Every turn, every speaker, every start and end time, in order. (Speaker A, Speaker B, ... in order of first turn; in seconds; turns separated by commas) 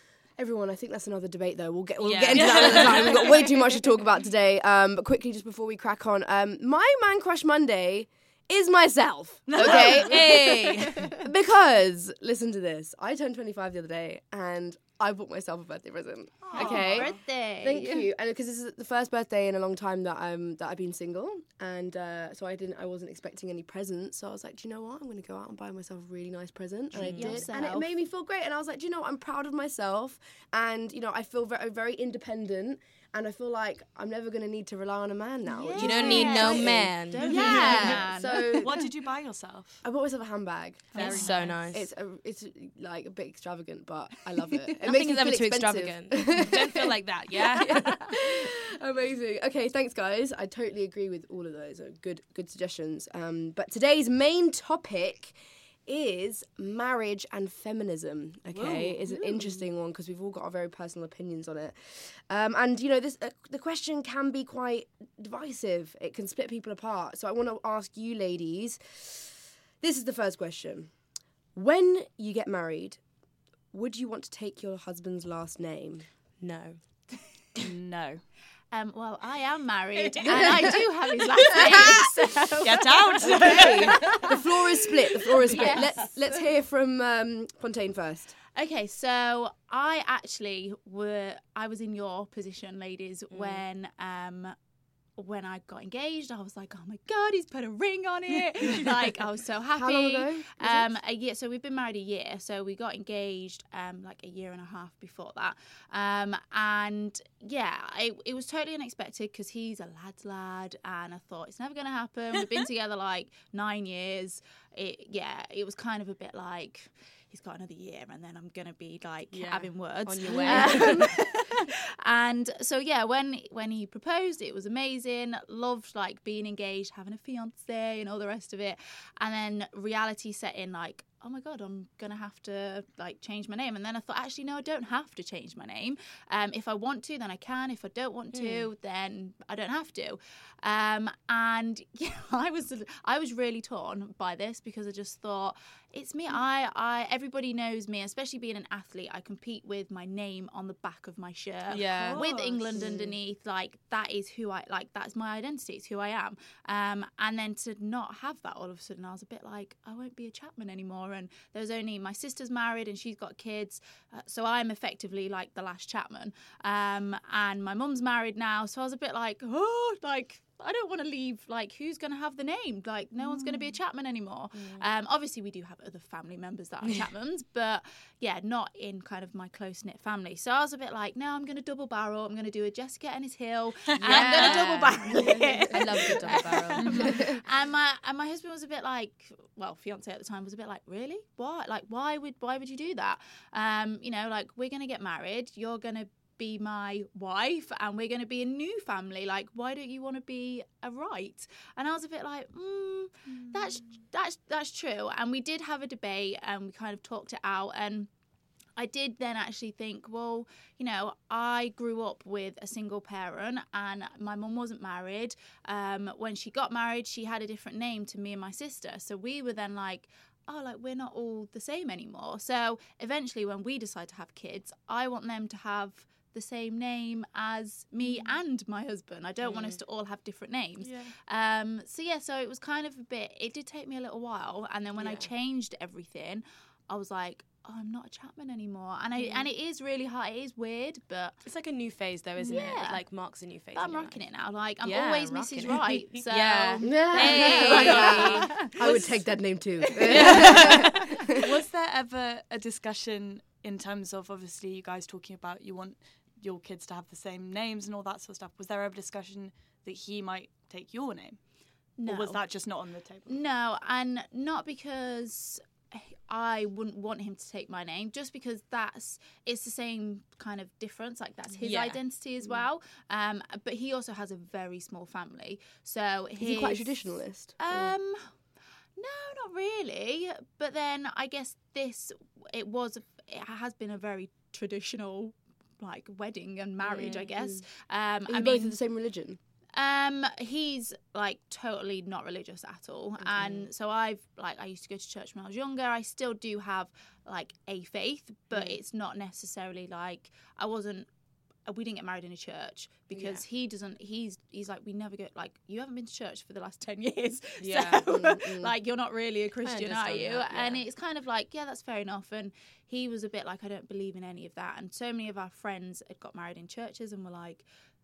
Speaker A: 0.3-38.8, Speaker B: 2.0-3.2, Speaker C: 2.4-3.2, Speaker C: 9.5-10.2, Speaker B: 9.6-11.1, Speaker D: 10.6-11.1, Speaker C: 16.4-17.1, Speaker D: 16.5-18.1, Speaker B: 26.9-27.5, Speaker D: 27.1-27.9, Speaker D: 35.5-38.7, Speaker B: 35.8-38.0, Speaker C: 37.2-39.8, Speaker A: 39.8-47.0, Speaker D: 40.9-41.5, Speaker C: 40.9-41.6, Speaker B: 41.0-41.9, Speaker B: 44.8-48.4, Speaker A: 47.5-71.0, Speaker B: 58.6-58.9, Speaker D: 59.0-59.5, Speaker A: 71.5-73.0, Speaker A: 73.7-76.1, Speaker B: 76.4-77.7, Speaker C: 77.6-78.2, Speaker D: 78.7-84.5, Speaker B: 80.2-80.5, Speaker A: 81.5-82.1, Speaker C: 82.6-84.0, Speaker A: 83.2-88.3, Speaker D: 85.4-86.4, Speaker D: 88.5-94.5, Speaker B: 93.3-93.6, Speaker D: 95.2-208.1, Speaker A: 99.8-101.0, Speaker B: 119.3-121.4, Speaker A: 120.2-121.1, Speaker B: 138.3-138.7, Speaker B: 151.7-152.9, Speaker C: 151.9-152.6, Speaker A: 152.1-153.2, Speaker B: 174.5-174.8, Speaker C: 183.9-184.7, Speaker B: 184.0-187.3, Speaker A: 185.1-186.4, Speaker C: 186.8-187.1, Speaker A: 187.0-187.4, Speaker D: 208.8-241.4, Speaker B: 228.0-228.3, Speaker B: 229.4-229.8, Speaker B: 230.8-231.1, Speaker B: 235.0-235.3, Speaker B: 239.2-239.5, Speaker B: 241.4-244.2, Speaker D: 242.4-249.1, Speaker B: 244.8-249.0, Speaker A: 246.8-251.2, Speaker D: 250.0-250.8, Speaker B: 250.1-250.9, Speaker C: 250.4-250.7, Speaker C: 251.3-263.4, Speaker D: 262.0-262.6, Speaker D: 263.3-278.4, Speaker B: 271.6-272.0, Speaker A: 276.4-277.9, Speaker D: 279.0-288.8, Speaker B: 286.9-287.3, Speaker A: 287.0-287.6, Speaker A: 288.3-289.4, Speaker D: 289.7-301.1, Speaker A: 293.2-293.5, Speaker B: 293.4-293.7, Speaker A: 298.5-298.8, Speaker D: 301.6-317.6, Speaker A: 303.1-303.4, Speaker B: 307.6-308.1, Speaker A: 308.0-308.7, Speaker B: 309.6-310.8